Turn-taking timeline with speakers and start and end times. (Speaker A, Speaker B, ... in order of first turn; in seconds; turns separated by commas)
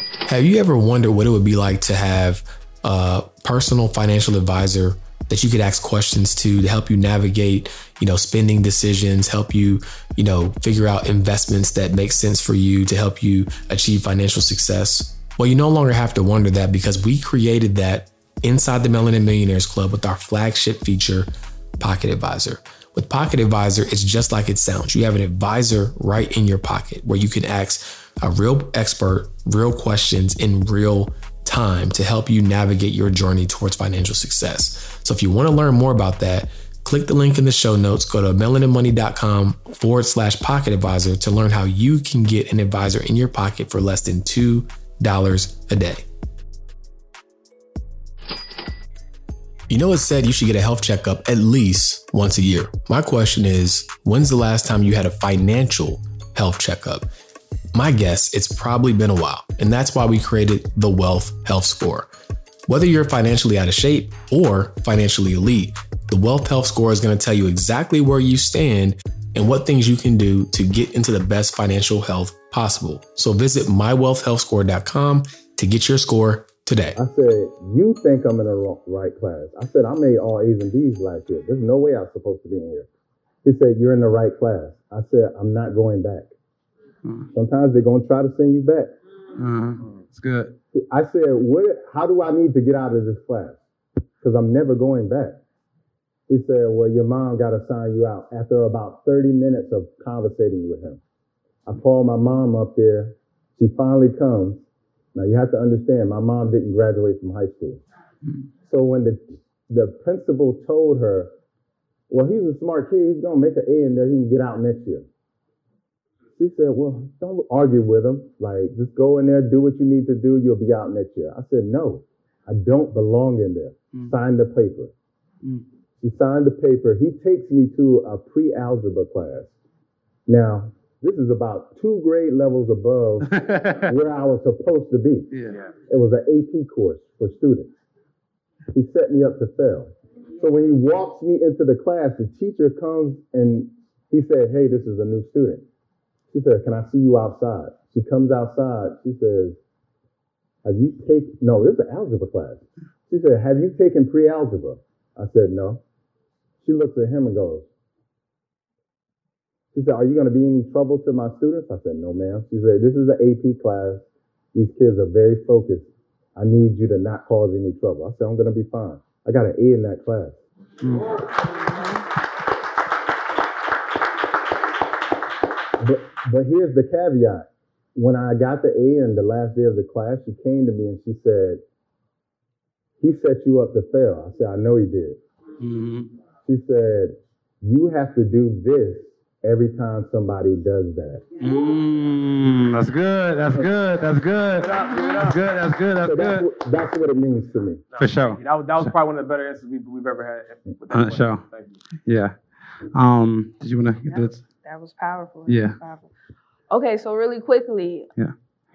Speaker A: 0.2-21.3, Speaker A: 21.8-46.0, Speaker A: 49.7-57.1, Speaker A: 57.7-62.1, Speaker A: 62.7-77.0, Speaker B: 77.0-82.9, Speaker B: 83.4-86.3, Speaker B: 87.3-89.0, Speaker C: 89.4-90.5, Speaker B: 90.7-93.6, Speaker B: 94.2-95.4, Speaker B: 96.3-101.0, Speaker B: 101.7-107.8, Speaker B: 108.6-111.3, Speaker B: 112.1-115.0, Speaker B: 116.4-124.9, Speaker B: 126.0-129.5, Speaker B: 130.3-135.3, Speaker C: 133.3-133.9, Speaker C: 135.3-135.6, Speaker D: 135.5-135.8, Speaker B: 135.9-137.7, Speaker B: 138.7-145.6, Speaker B: 146.3-149.6, Speaker B: 150.6-155.8, Speaker B: 156.6-157.7, Speaker B: 159.7-170.4, Speaker C: 170.8-171.1, Speaker B: 175.8-181.6, Speaker B: 183.0-185.2, Speaker C: 185.6-186.1, Speaker B: 186.4-191.2, Speaker C: 191.4-196.5, Speaker D: 194.5-195.4, Speaker B: 196.0-197.8, Speaker D: 197.9-201.8, Speaker C: 198.0-198.9, Speaker C: 200.9-201.4, Speaker C: 202.0-202.3, Speaker C: 202.9-204.4, Speaker E: 204.1-206.1, Speaker C: 205.5-205.8, Speaker E: 206.7-208.1